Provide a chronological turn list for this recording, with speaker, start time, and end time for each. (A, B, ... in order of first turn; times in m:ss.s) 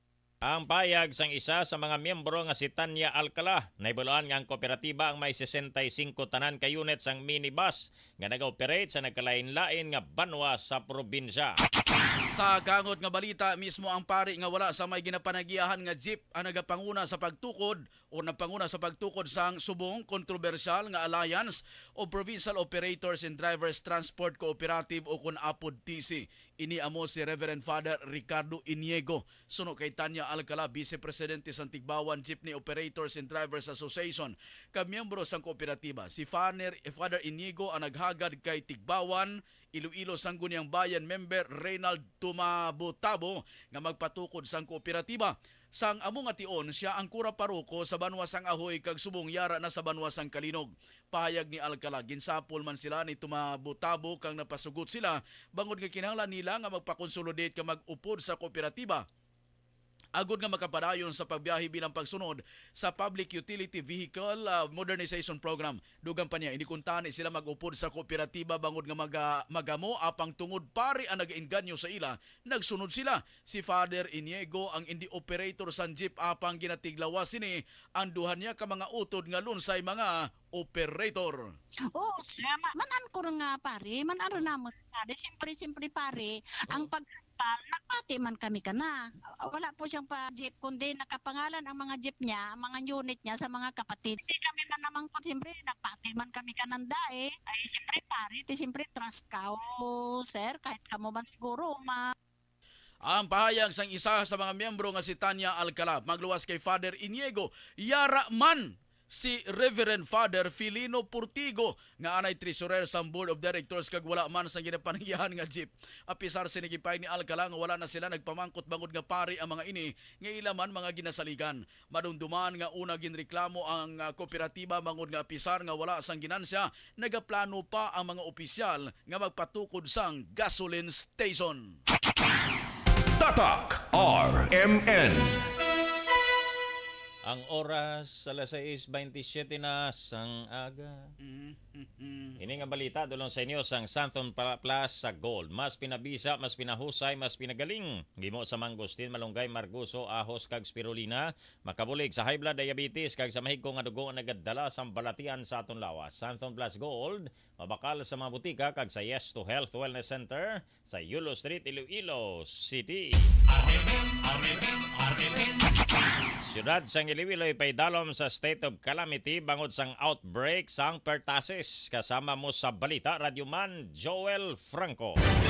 0:00.4-0:11.6 A
0:12.3-0:59.0 B
1:00.2-1:21.5 B
1:21.9-1:42.0 C
1:43.0-2:11.8 B
2:13.2-2:15.4 D
2:17.3-2:21.1 A
2:21.2-2:22.4 B
2:22.4-2:43.3 A
2:46.4-2:55.2 A